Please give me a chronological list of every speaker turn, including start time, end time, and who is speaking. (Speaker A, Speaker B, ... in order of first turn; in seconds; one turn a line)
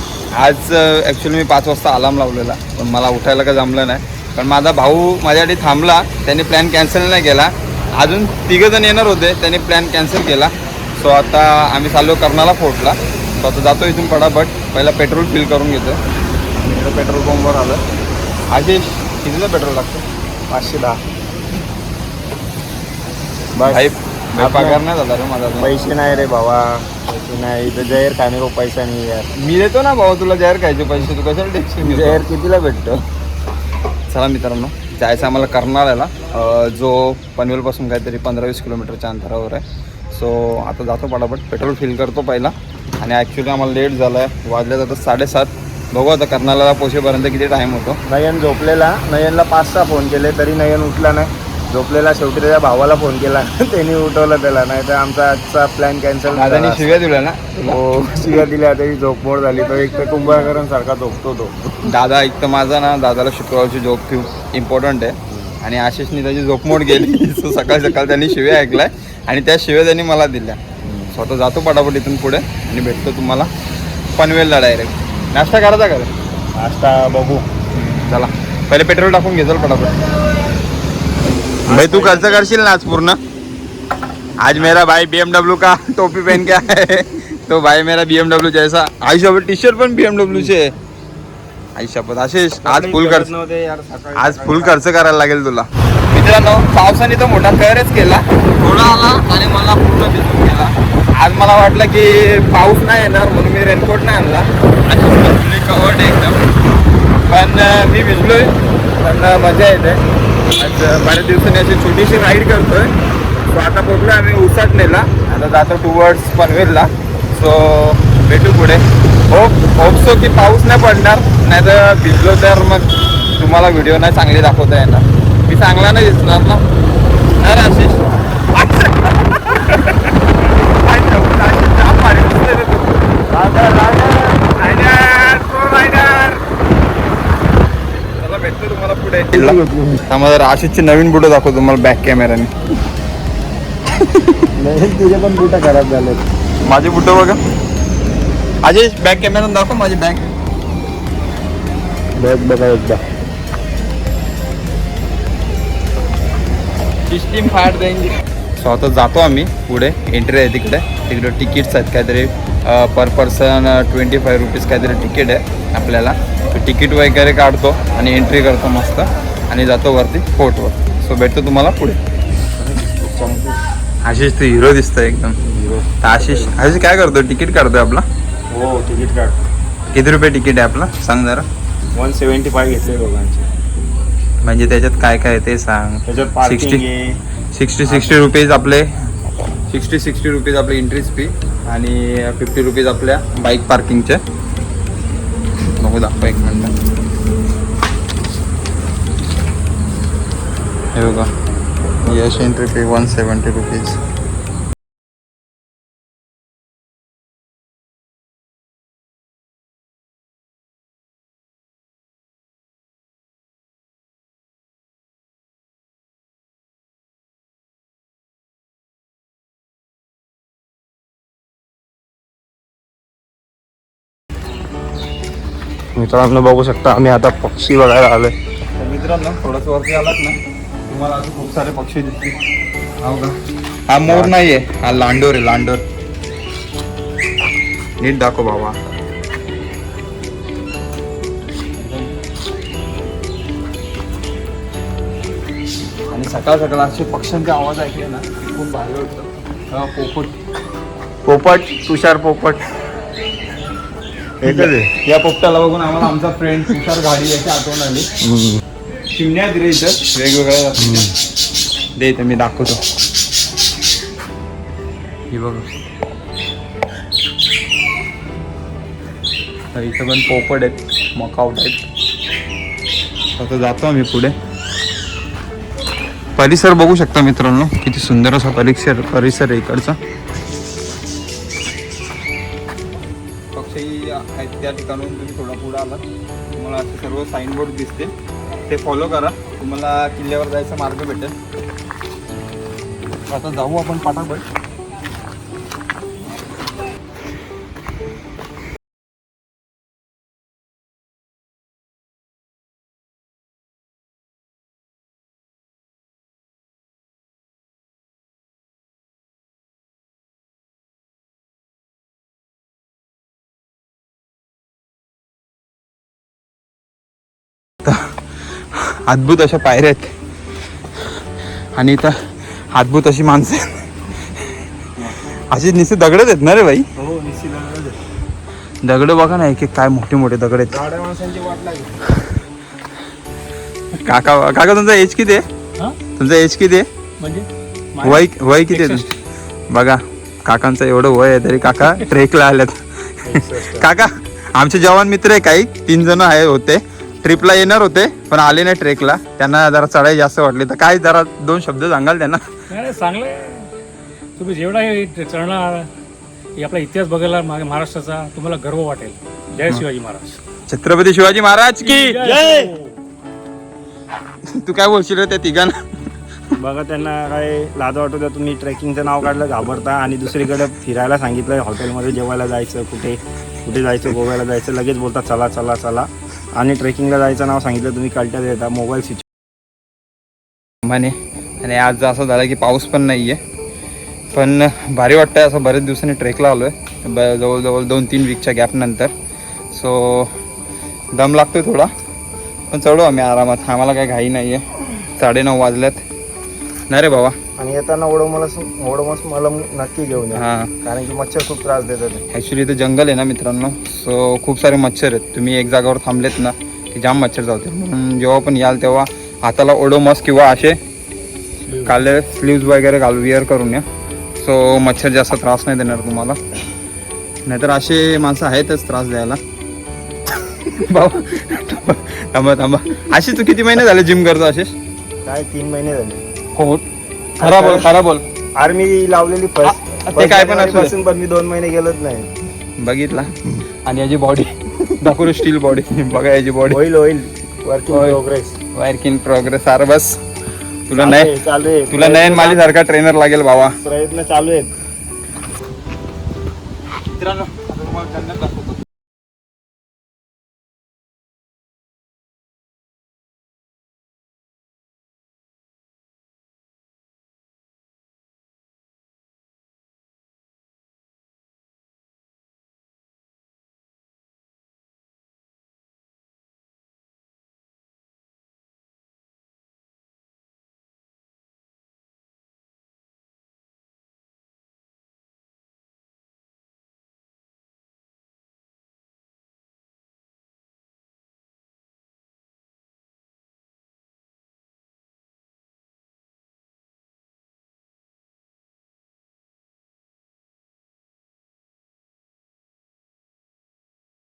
Speaker A: 0.3-16.0
Speaker A: 16.6-17.8
Speaker A: 18.5-20.1
Speaker B: 20.5-21.0
Speaker B: 23.6-24.8
Speaker A: 23.7-25.8
Speaker B: 25.6-29.3
Speaker A: 29.4-32.2
Speaker B: 31.8-33.0
Speaker A: 34.1-48.0
Speaker B: 48.1-57.1
Speaker A: 56.3-57.8
Speaker B: 57.6-61.7
Speaker A: 61.8-70.6
Speaker B: 65.3-65.5
Speaker B: 70.8-71.2
Speaker A: 71.1-73.5
Speaker A: 74.2-76.1
Speaker B: 76.5-77.5
Speaker A: 77.7-80.0
Speaker B: 81.7-82.5
Speaker A: 81.7-83.2
Speaker A: 84.4-90.7
Speaker A: 91.8-93.3
Speaker B: 92.6-94.8
Speaker A: 94.2-106.4
Speaker A: 107.2-110.0
Speaker A: 110.6-126.6
Speaker A: 127.4-136.4
Speaker A: 138.2-142.5
Speaker B: 139.3-140.1
Speaker A: 143.9-144.4
Speaker B: 144.6-146.2
Speaker A: 146.7-147.4
Speaker A: 148.6-150.3
Speaker B: 152.2-153.0
Speaker A: 157.1-172.0
Speaker B: 172.6-173.6
Speaker A: 174.0-175.4
Speaker B: 175.4-176.5
Speaker A: 176.0-178.1
Speaker B: 178.5-179.4
Speaker A: 179.9-181.5
Speaker B: 182.0-183.5
Speaker A: 184.4-186.8
Speaker B: 186.1-187.2
Speaker A: 187.5-188.9
Speaker B: 187.8-188.3
Speaker A: 189.7-194.2
Speaker A: 195.8-196.7
Speaker A: 200.9-201.3
Speaker A: 202.0-204.0
Speaker B: 226.0-228.3
Speaker A: 228.8-232.2
Speaker A: 233.0-233.3
Speaker A: 233.9-235.8
Speaker B: 234.1-234.4
Speaker A: 238.0-238.8
Speaker A: 241.8-242.1
Speaker A: 246.1-250.4
Speaker B: 251.2-252.6
Speaker B: 254.4-254.9
Speaker A: 254.4-258.1
Speaker B: 258.2-258.6
Speaker A: 259.1-261.2
Speaker B: 260.8-261.1
Speaker A: 262.0-262.8
Speaker A: 265.3-265.6
Speaker A: 269.7-271.8
Speaker A: 273.3-274.4
Speaker A: 276.4-280.0
Speaker A: 283.6-288.1
Speaker A: 288.7-291.3
Speaker A: 293.3-294.4
Speaker A: 317.8-318.1
Speaker A: 318.7-320.1
Speaker A: 321.8-322.1
Speaker A: 322.7-323.9
Speaker A: 325.5-326.9
Speaker B: 327.0-328.0
Speaker A: 328.8-330.8
Speaker B: 330.7-332.2
Speaker A: 333.9-335.4
Speaker A: 336.1-336.9
Speaker C: 337.2-339.1
Speaker A: 338.0-339.1
Speaker A: 339.7-342.8
Speaker B: 343.2-343.9
Speaker A: 343.4-352.4
Speaker C: 352.7-353.7
Speaker C: 354.4-355.9
Speaker C: 356.6-360.4
Speaker A: 360.7-362.2
Speaker C: 361.8-362.8
Speaker B: 362.1-362.8
Speaker A: 364.5-365.8
Speaker B: 366.6-379.2
Speaker A: 380.8-383.4
Speaker A: 384.3-389.1
Speaker A: 389.7-390.4
Speaker A: 391.1-391.9
Speaker A: 392.7-396.0
Speaker A: 396.9-397.4
Speaker B: 397.6-402.2
Speaker A: 400.4-400.7
Speaker A: 402.3-410.8
Speaker A: 411.8-413.9
Speaker A: 414.4-416.4
Speaker A: 417.5-419.4
Speaker A: 420.3-424.8
Speaker B: 425.2-426.2
Speaker A: 426.6-426.9
Speaker A: 427.4-428.2
Speaker B: 427.4-427.9
Speaker B: 428.6-432.3
Speaker A: 429.6-431.0
Speaker A: 432.8-433.3
Speaker A: 433.8-436.8
Speaker B: 436.7-438.6
Speaker A: 437.9-438.2
Speaker A: 438.7-440.2
Speaker A: 440.9-441.3
Speaker B: 440.9-442.7
Speaker A: 441.9-443.8
Speaker B: 443.8-444.7
Speaker A: 447.2-448.8